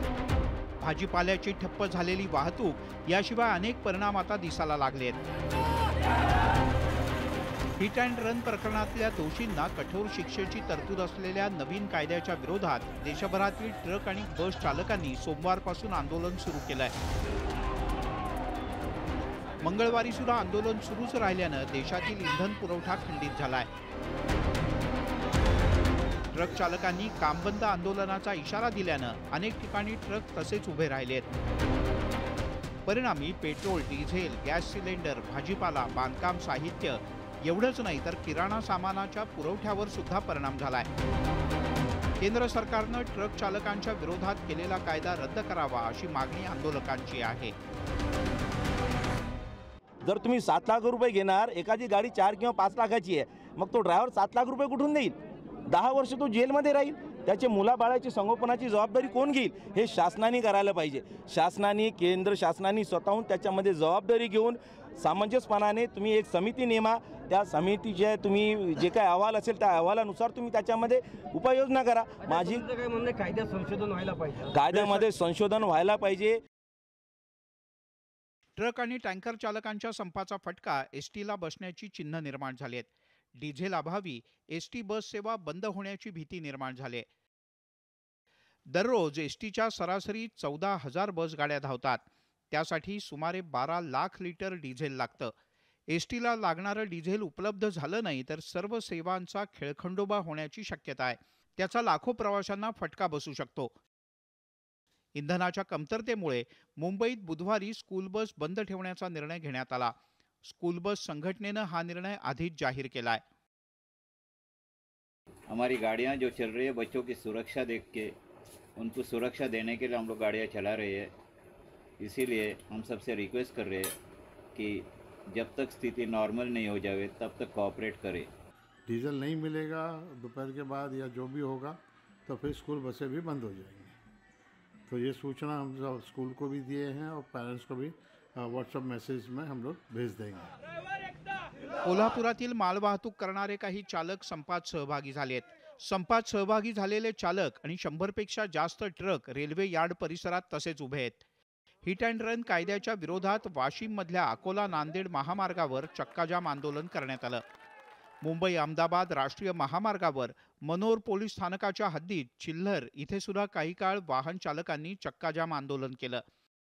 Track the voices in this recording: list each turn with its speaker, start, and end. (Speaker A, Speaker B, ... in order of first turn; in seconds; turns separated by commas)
Speaker A: 0.8-5.2, Speaker A: 7.8-16.9, Speaker A: 19.6-23.7, Speaker A: 26.3-31.3, Speaker A: 32.9-40.9, Speaker A: 42.2-47.5, Speaker B: 50.0-55.1, Speaker B: 55.7-72.7, Speaker C: 72.4-75.0, Speaker B: 74.5-76.4, Speaker A: 78.6-87.1, Speaker A: 88.7-95.3, Speaker A: 95.9-103.7, Speaker A: 105.2-110.0, Speaker A: 110.5-113.2, Speaker D: 115.5-118.1, Speaker D: 118.8-121.1, Speaker D: 122.0-123.9, Speaker D: 124.5-128.3, Speaker E: 128.9-134.0, Speaker E: 134.9-140.6, Speaker A: 141.8-151.2, Speaker A: 151.8-157.4, Speaker A: 158.2-166.2